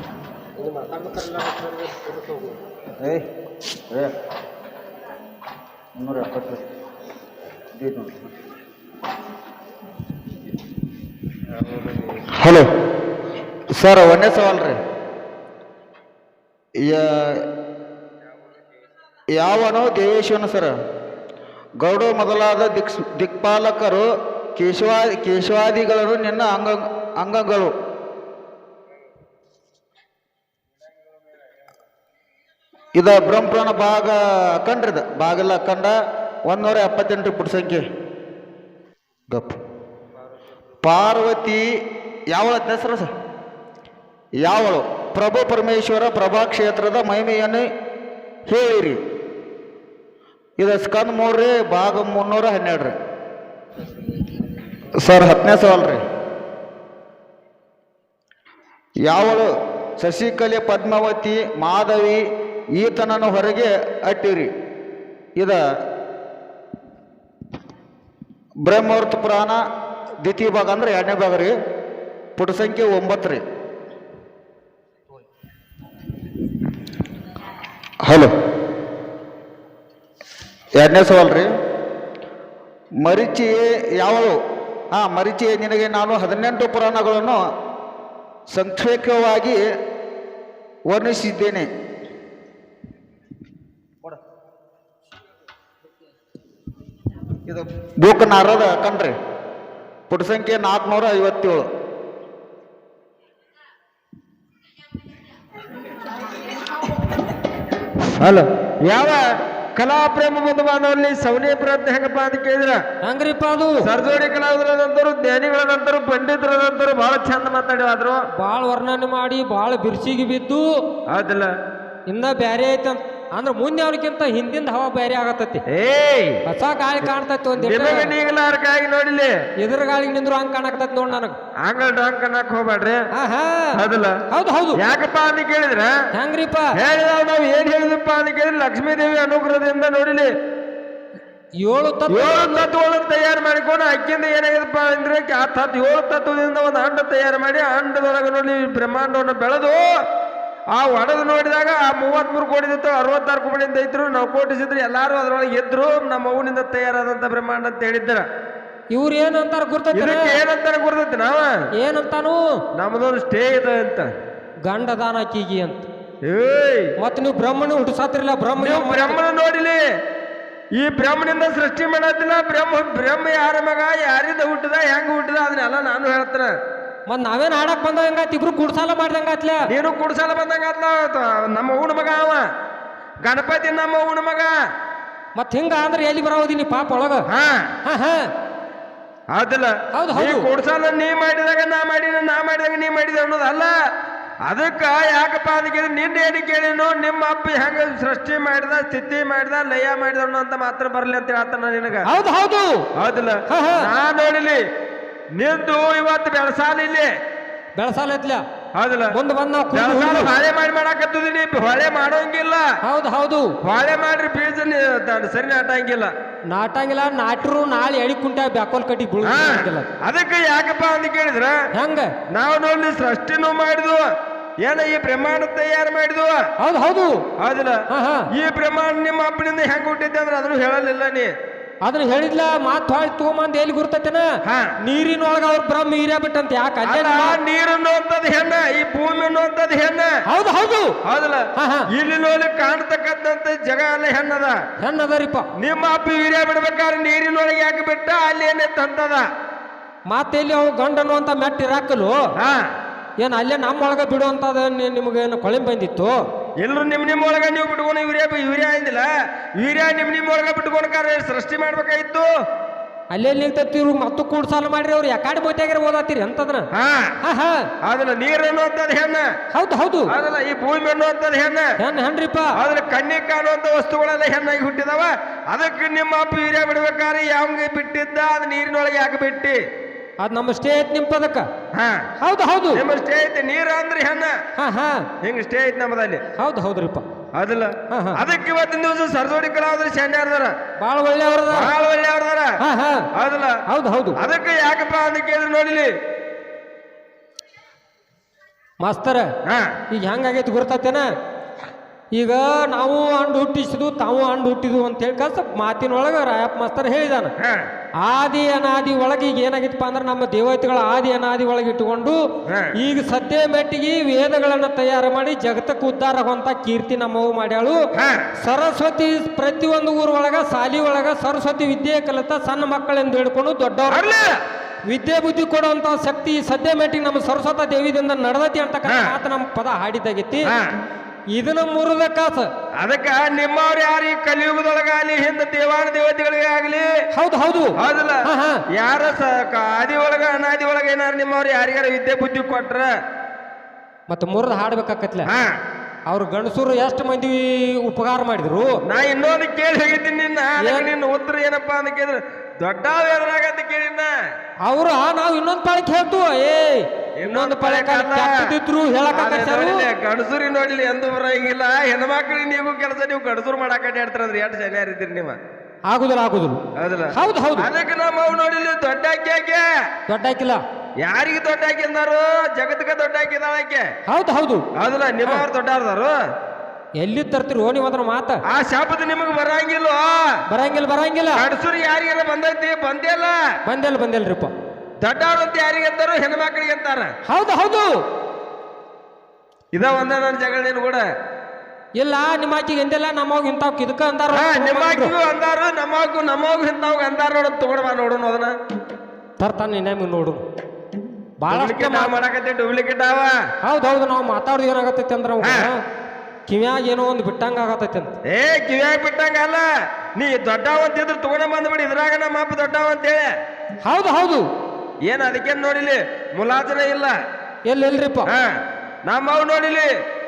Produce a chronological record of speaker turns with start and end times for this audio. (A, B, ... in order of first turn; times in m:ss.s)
0:00.6-0:02.5 A
0:03.0-0:03.2 B
0:06.0-0:06.6 B
0:07.8-0:08.2 B
0:11.5-0:12.3 C
0:12.3-0:12.7 B
0:13.7-0:14.8 B
0:16.8-0:17.4 B
0:19.3-0:20.7 B
0:21.8-0:27.7 B
0:32.9-0:35.9 B
0:36.5-0:37.8 B
0:39.3-0:39.6 B
0:40.8-0:41.6 B
0:42.3-0:43.1 B
0:44.4-0:47.7 B
0:48.5-0:49.0 B
0:50.6-0:52.9 B
0:54.9-0:56.0 B
0:59.0-1:02.2 B
1:02.7-1:04.5 B
1:05.4-1:05.6 B
1:08.6-1:09.6 B
1:10.2-1:11.5 B
1:12.4-1:13.4 B
1:18.0-1:18.3 B
1:20.8-1:21.5 B
1:23.0-1:24.4 B
1:24.9-1:27.4 B
1:28.5-1:29.6 B
1:30.9-1:31.7 B
1:37.5-1:39.1 B
1:40.1-1:41.6 B
1:48.0-1:52.8 C
1:53.0-1:53.8 A
1:53.8-1:58.2 C
1:58.4-2:00.6 A
2:01.1-2:01.5 C
2:02.1-2:05.6 A
2:05.7-2:06.4 C
2:06.4-2:08.1 A
2:07.6-2:09.3 C
2:09.6-2:11.4 A
2:11.6-2:13.1 C
2:13.1-2:13.8 A
2:13.7-2:14.2 C
2:14.3-2:14.8 A
2:14.8-2:16.0 C
2:16.1-2:16.8 A
2:16.7-2:20.3 C
2:21.6-2:22.7 A
2:22.1-2:29.9 C
2:30.7-2:38.3 C
2:38.9-2:40.4 A
2:39.9-2:41.6 C
2:41.7-2:42.4 A
2:42.8-2:44.1 C
2:44.6-2:45.9 A
2:46.2-2:46.9 C
2:47.0-2:49.2 A
2:48.6-2:49.8 C
2:50.8-2:56.5 C
2:57.1-2:59.7 A
2:59.7-3:02.4 C
3:03.2-3:04.5 C
3:05.4-3:07.2 A
3:07.3-3:07.7 C
3:07.8-3:08.3 A
3:09.3-3:13.7 C
3:09.9-3:10.5 A
3:14.5-3:22.1 C
3:22.0-3:22.8 A
3:23.0-3:24.6 C
3:23.5-3:23.9 A
3:25.4-3:27.1 C
3:27.8-3:28.4 A
3:28.7-3:29.1 C
3:29.1-3:30.3 A
3:29.7-3:32.7 C
3:32.8-3:33.5 A
3:33.6-3:36.1 C
3:36.5-3:39.9 A
3:39.2-3:41.6 C
3:41.7-3:42.1 A
3:42.3-3:44.1 C
3:44.6-3:46.4 C
3:46.6-3:47.2 A
3:47.4-3:47.8 C
3:47.9-3:48.3 A
3:48.3-3:51.3 C
3:51.8-3:54.2 A
3:54.4-3:54.7 C
3:54.8-3:57.4 A
3:56.8-4:00.1 C
4:00.3-4:00.9 A
4:01.0-4:04.6 C
4:01.5-4:01.9 A
4:04.8-4:05.5 A
4:05.6-4:09.2 C
4:10.1-4:12.2 A
4:12.4-4:12.7 C
4:13.2-4:16.2 A
4:16.6-4:22.3 C
4:23.1-4:26.6 A
4:26.7-4:27.2 C
4:27.2-4:27.7 A
4:27.8-4:29.3 C
4:29.5-4:30.1 A
4:30.1-4:31.7 C
4:31.8-4:32.5 A
4:32.6-4:39.6 C
4:40.2-4:41.5 A
4:41.7-4:42.1 C
4:42.2-4:42.8 A
4:42.7-4:44.4 C
4:44.6-4:45.1 A
4:45.2-4:46.2 C
4:46.3-4:47.0 A
4:47.3-4:50.5 C
4:47.9-4:48.2 A
4:50.8-4:51.7 A
4:51.5-4:52.5 C
4:52.6-4:53.1 A
4:53.1-4:53.6 C
4:53.7-4:54.2 A
4:54.2-4:55.9 C
4:58.8-4:59.3 A
4:59.4-4:59.7 C
4:59.9-5:01.0 A
5:02.1-5:07.3 A
5:07.4-5:07.7 C
5:08.0-5:12.2 A
5:12.5-5:12.7 C
5:12.7-5:17.8 A
5:17.9-5:18.3 C
5:18.4-5:24.0 A
5:23.9-5:24.4 C
5:24.9-5:30.5 A
5:28.8-5:29.2 C
5:30.4-5:30.8 C
5:31.3-5:32.5 A
5:32.8-5:36.9 C
5:37.1-5:38.6 A
5:37.8-5:42.9 C
5:44.1-5:45.3 A
5:45.3-5:45.6 C
5:46.1-5:48.8 A
5:48.9-5:54.1 C
5:50.6-5:50.9 A
5:54.6-5:59.8 A
5:57.2-5:58.4 C
5:59.1-6:05.4 C
6:05.9-6:07.7 A
6:06.8-6:09.6 C
6:10.1-6:10.6 A
6:11.0-6:13.9 C
6:14.1-6:14.6 A
6:14.8-6:16.2 C
6:17.0-6:18.4 A
6:18.5-6:20.3 C
6:20.5-6:21.4 A
6:21.4-6:23.4 C
6:23.6-6:24.5 A
6:25.0-6:27.1 C
6:27.2-6:27.9 A
6:29.7-6:31.0 C
6:32.0-6:35.1 A
6:34.3-6:38.5 C
6:39.4-6:40.4 A
6:41.4-6:42.1 A
6:41.5-6:43.4 C
6:43.6-6:45.8 A
6:45.4-6:45.7 C
6:46.5-6:48.1 A
6:48.3-6:53.3 C
6:53.8-6:54.4 A
6:55.0-6:57.2 C
6:57.7-6:58.3 A
6:58.3-6:59.9 C